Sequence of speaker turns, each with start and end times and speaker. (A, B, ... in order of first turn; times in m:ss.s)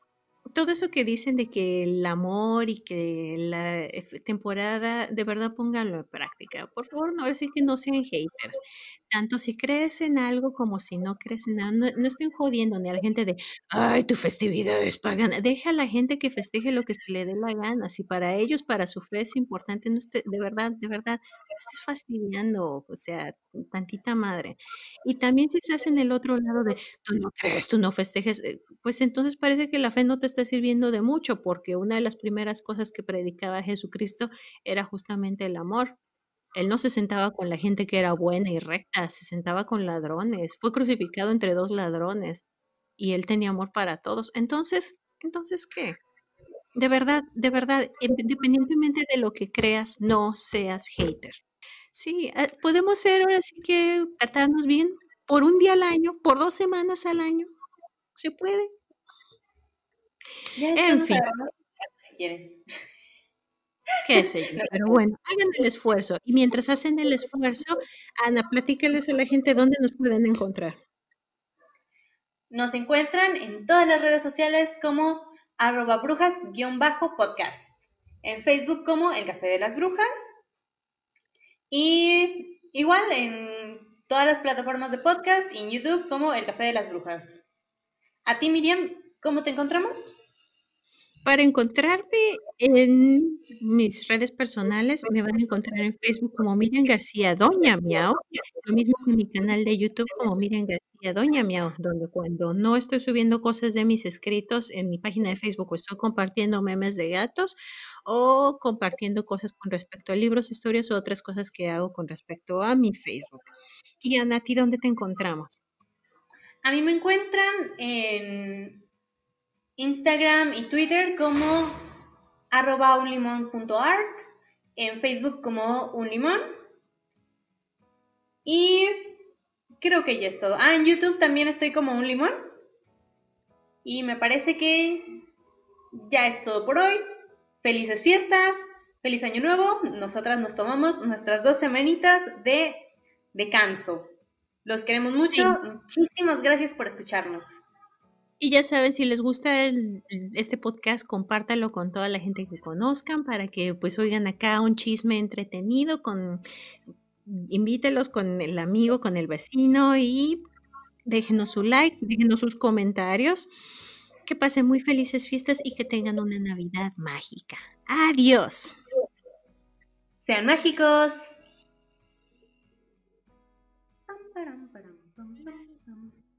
0:00.5-0:36.0 A
0:36.6-0:42.4 A
0:43.0-0:46.0 A
0:46.8-0:51.4 A
0:51.9-0:57.5 A
0:58.2-0:58.7 A
1:00.6-1:02.6 B
1:00.8-1:01.3 A
1:04.0-1:10.8 A
1:04.6-1:05.0 B
1:12.5-1:20.3 B
1:21.7-1:27.4 B
1:28.3-1:30.2 B
1:31.2-1:53.5 A
1:54.0-1:55.6 A
1:56.6-1:58.8 B
1:59.8-2:01.8 B
2:02.5-2:04.2 B
2:04.8-2:06.4 B
2:08.4-2:09.2 B
2:09.8-2:12.4 B
2:13.8-2:15.1 B
2:15.9-2:17.0 B
2:17.6-2:24.1 B
2:24.6-2:27.6 B
2:25.3-2:25.6 A
2:28.4-2:36.4 A
2:37.2-2:40.4 A
2:41.1-2:43.5 A
2:44.3-2:48.8 A
2:50.2-2:51.3 B
2:54.1-2:56.2 B